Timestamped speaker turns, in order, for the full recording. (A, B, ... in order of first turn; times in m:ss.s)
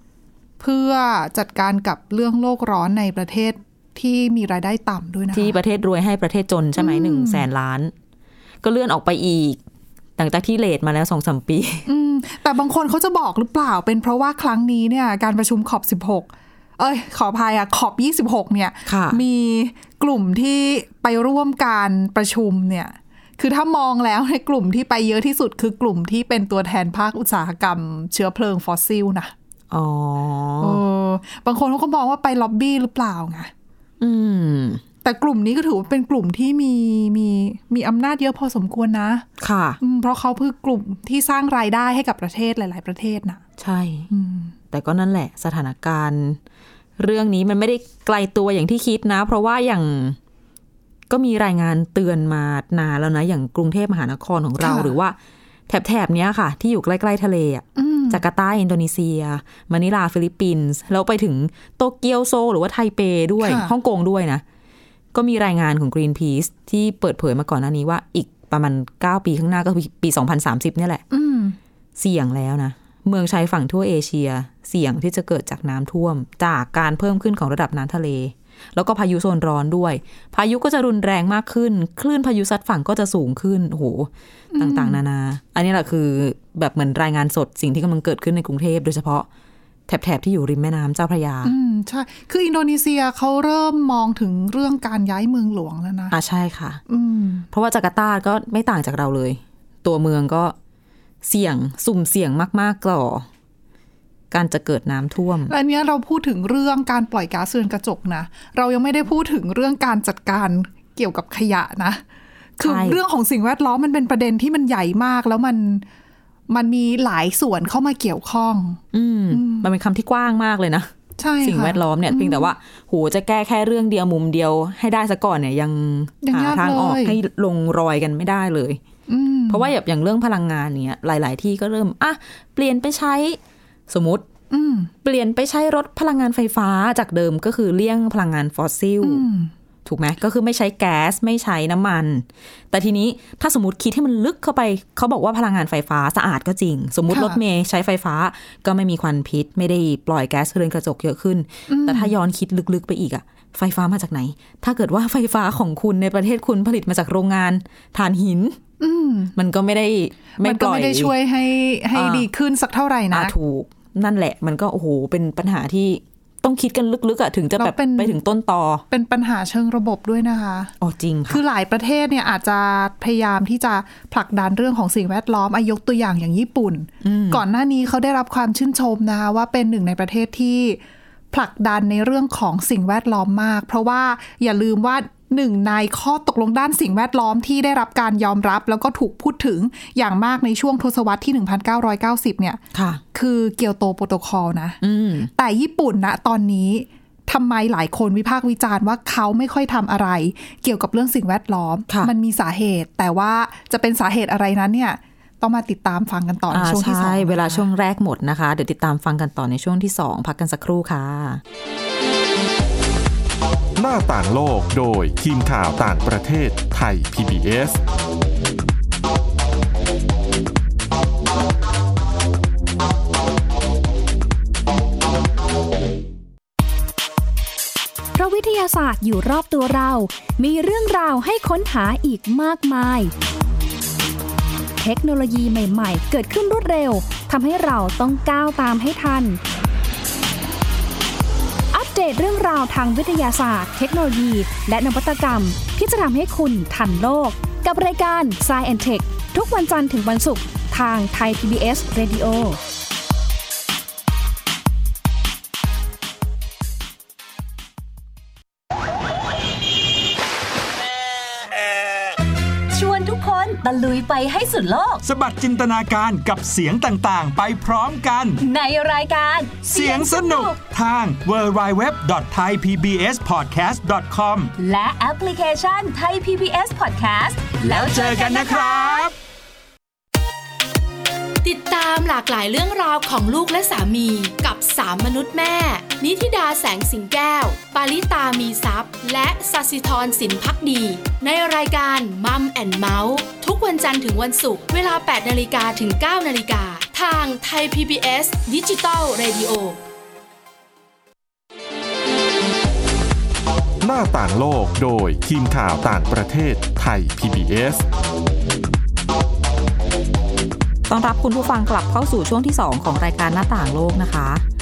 0:00.6-0:05.6 A
0:05.3-0:07.9 B
0:06.8-0:07.4 A
0:08.6-0:09.6 B
0:10.2-0:11.8 B
0:11.8-0:29.3 A
0:18.8-0:19.2 B
0:29.7-0:30.8 B
0:30.6-0:33.5 A
0:34.0-0:34.8 B
0:35.0-0:39.2 A
0:39.4-0:39.8 B
0:39.8-0:43.4 A
0:43.6-0:44.1 B
0:44.1-0:44.5 A
0:44.7-0:46.4 B
0:47.0-0:50.2 B
0:51.1-0:55.2 B
0:54.6-0:54.9 A
0:55.7-1:04.4 B
0:57.8-0:58.2 A
1:03.4-1:03.7 A
1:05.1-1:11.0 B
1:11.1-1:11.6 A
1:12.0-1:29.3 B
1:24.5-1:25.0 A
1:29.9-1:31.5 B
1:31.4-1:36.1 A
1:36.1-1:36.8 B
1:36.9-1:37.5 A
1:37.5-1:40.5 B
1:41.2-1:43.2 B
1:44.3-1:45.5 B
1:45.5-1:52.0 A
1:52.6-1:55.8 A
1:52.6-1:53.0 B
1:56.5-1:58.8 A
1:58.9-2:00.9 B
1:59.3-1:59.7 A
2:01.2-2:02.5 A
2:01.4-2:08.8 B
2:06.2-2:07.2 A
2:09.1-2:09.7 A
2:09.5-2:14.2 B
2:14.5-2:14.9 A
2:15.0-2:19.2 B
2:19.0-2:19.5 A
2:19.8-2:38.6 B
2:27.1-2:27.4 A
2:31.7-2:32.1 A
2:38.8-2:39.3 A
2:39.3-2:41.1 B
2:40.4-2:43.3 A
2:41.9-2:42.3 B
2:43.1-2:48.8 B
2:47.6-2:48.2 A
2:48.9-2:50.7 A
2:50.8-2:51.4 B
2:51.3-3:00.8 A
2:57.0-2:57.4 B
3:01.3-3:12.6 A
3:12.7-3:13.0 B
3:13.1-3:14.8 A
3:14.8-3:15.3 B
3:15.3-3:27.6 A
3:26.5-3:31.4 B
3:33.8-3:37.8 C
3:48.2-3:53.1 D
3:54.8-3:59.4 D
4:01.7-4:12.6 D
4:22.7-4:25.0 E
4:25.0-4:28.4 F
4:28.4-4:30.6 E
4:29.6-4:34.5 F
4:34.6-4:39.1 E
4:37.6-4:39.1 F
4:41.4-4:59.8 G
5:03.8-5:07.8 C
5:10.9-5:14.4 B